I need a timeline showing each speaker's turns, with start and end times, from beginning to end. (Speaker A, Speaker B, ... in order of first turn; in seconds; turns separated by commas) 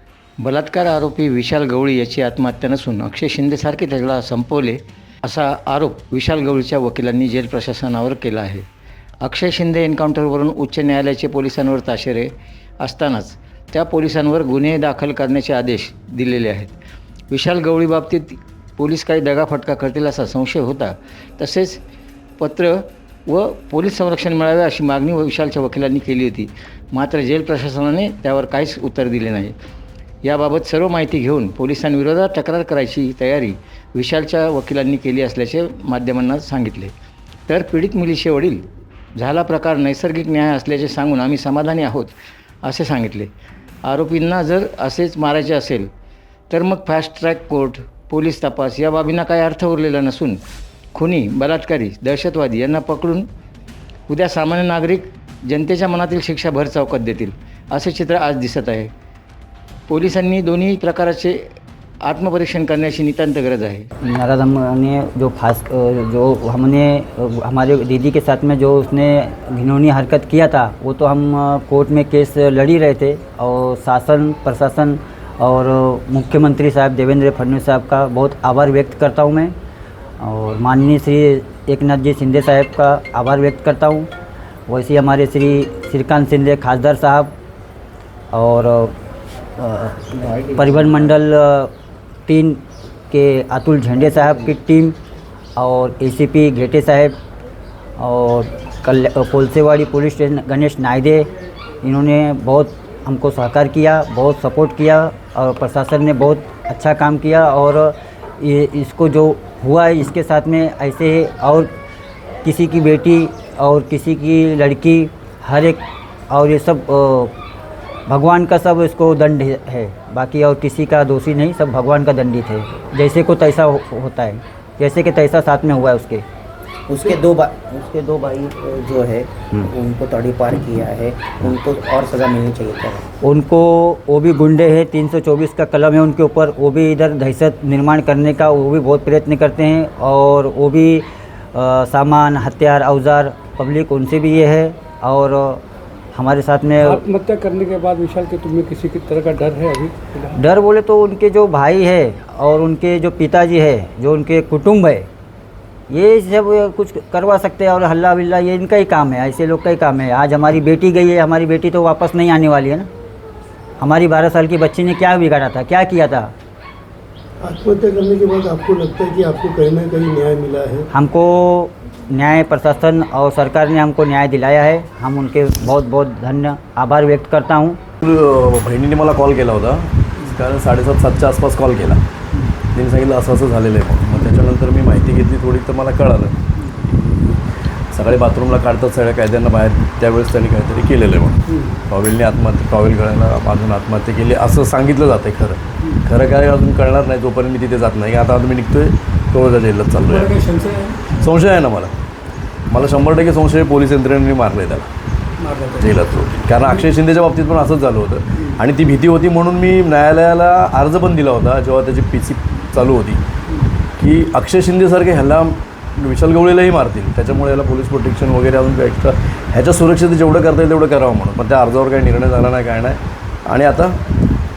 Speaker A: 0.4-8.7, Speaker A: 9.2-16.7, Speaker A: 17.3-21.8, Speaker A: 22.4-29.5, Speaker A: 30.2-36.9, Speaker A: 37.5-43.3, Speaker A: 43.9-45.9, Speaker A: 46.5-50.4, Speaker A: 51.0-53.3, Speaker A: 54.1-58.9, Speaker A: 59.9-61.4, Speaker A: 62.0-63.9, Speaker B: 64.0-79.5, Speaker B: 80.2-84.1, Speaker B: 84.7-87.3, Speaker B: 88.3-88.9, Speaker B: 89.6-90.0, Speaker C: 90.2-91.2, Speaker B: 90.5-91.7, Speaker B: 92.3-95.0, Speaker B: 95.6-97.2, Speaker B: 98.0-101.3, Speaker B: 101.8-111.7, Speaker B: 112.4-117.3, Speaker B: 118.1-126.2, Speaker C: 126.9-133.1, Speaker B: 133.2-145.6, Speaker B: 146.2-147.0, Speaker D: 146.8-150.4, Speaker B: 150.4-155.1, Speaker B: 155.9-162.9, Speaker B: 163.8-166.3, Speaker E: 167.4-170.8, Speaker B: 170.9-177.8, Speaker F: 178.0-182.0, Speaker F: 182.7-186.4, Speaker F: 187.9-200.3, Speaker D: 191.5-191.8, Speaker D: 200.1-201.1, Speaker F: 201.2-201.9, Speaker F: 202.7-204.9, Speaker D: 205.4-206.0, Speaker F: 205.8-213.2, Speaker F: 214.0-224.0